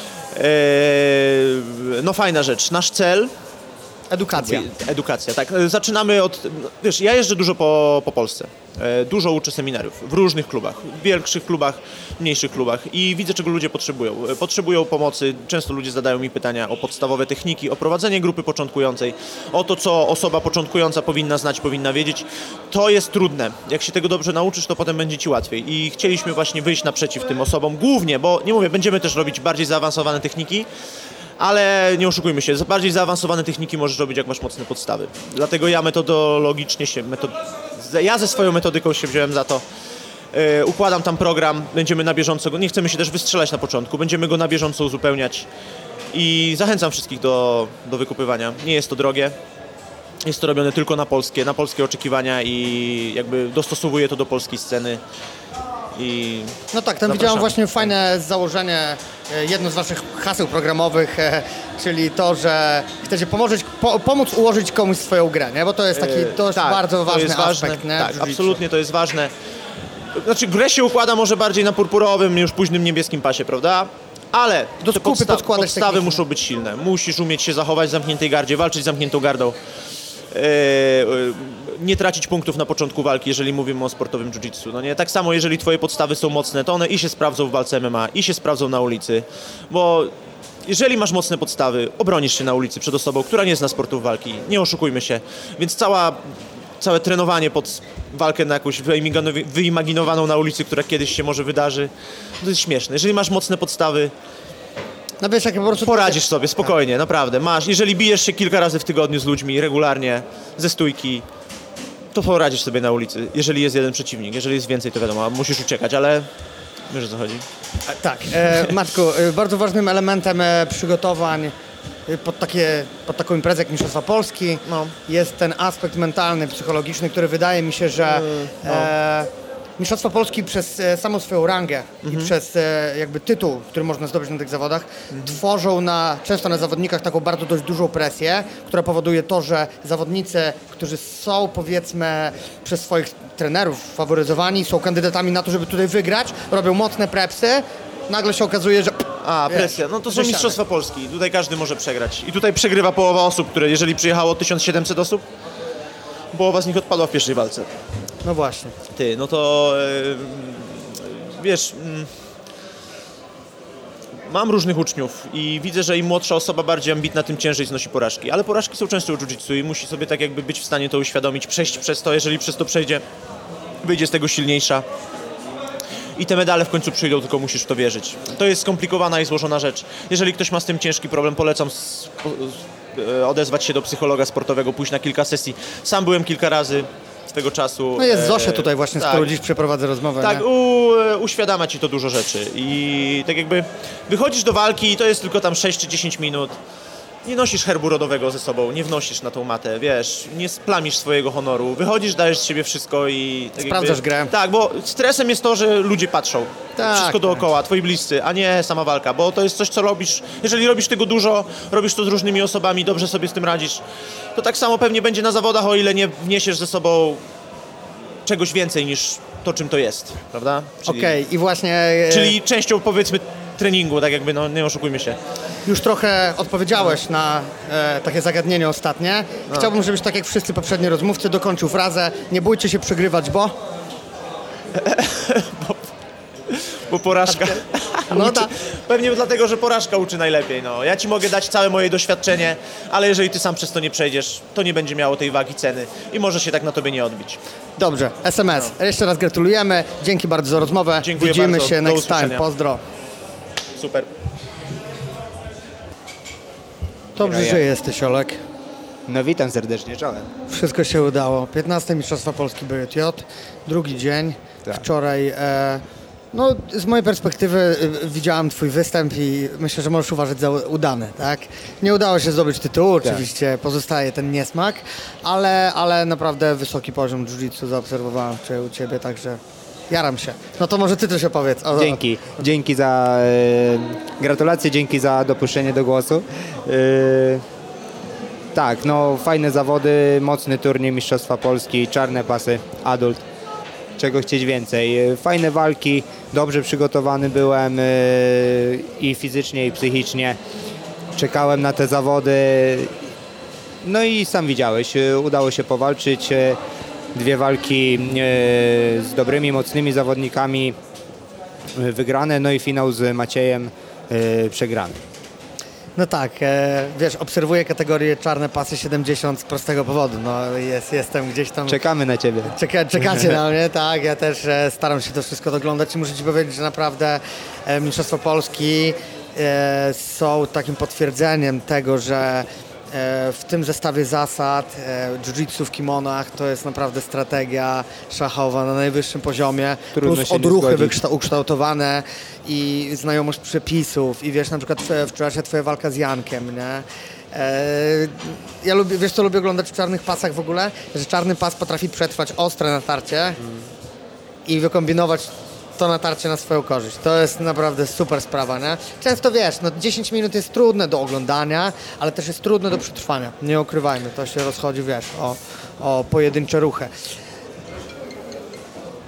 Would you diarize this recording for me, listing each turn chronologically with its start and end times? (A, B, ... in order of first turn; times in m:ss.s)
0:00.3-0:03.3 A
0:04.1-0:04.7 B
0:04.4-0:30.7 A
0:31.4-0:39.6 A
0:40.3-0:45.5 A
0:46.1-0:49.4 A
0:50.2-0:55.0 A
0:56.0-0:57.9 A
0:56.7-1:08.6 B
1:05.9-1:09.3 A
1:10.1-1:19.6 A
1:14.8-1:16.2 B
1:20.3-1:30.1 A
1:30.6-1:44.1 A
1:45.2-1:46.7 B
1:45.8-1:51.2 A
1:52.1-1:56.3 A
1:56.9-1:57.4 A
1:57.9-2:01.5 B
2:02.1-2:30.6 B
2:04.7-2:05.0 A
2:08.2-2:08.9 A
2:12.0-2:12.3 A
2:29.2-2:35.2 A
2:36.3-2:37.7 A
2:38.2-2:38.7 B
2:39.0-2:42.1 A
2:44.3-2:53.0 A
2:53.8-2:54.8 A
2:56.2-3:09.3 A
3:08.0-3:10.4 B
3:10.2-3:16.6 A
3:17.2-3:33.8 A
3:23.6-3:24.3 B
3:26.8-3:27.2 B
3:34.4-3:37.2 A
3:38.2-3:41.2 A
3:40.8-3:42.4 B
3:42.1-3:45.2 A
3:45.7-3:53.6 B
3:54.8-3:55.9 A
3:56.5-4:07.4 A
3:57.3-3:57.6 B
3:58.1-3:58.5 B
4:07.8-4:12.8 B
4:11.0-4:12.4 A
4:13.8-4:14.1 A
4:17.2-4:18.4 B
4:17.2-4:17.6 C
4:19.1-4:20.3 C
4:20.5-4:42.0 B
4:41.8-4:47.4 C
4:48.5-4:53.2 C
4:54.0-5:00.4 C
5:01.2-5:03.0 C
5:03.8-5:06.6 C
5:07.1-5:10.8 C
5:11.8-5:15.0 C
5:16.0-5:21.8 B
5:21.7-5:23.3 C
5:22.4-5:53.4 B
5:39.9-5:41.0 C
5:54.5-6:06.9 B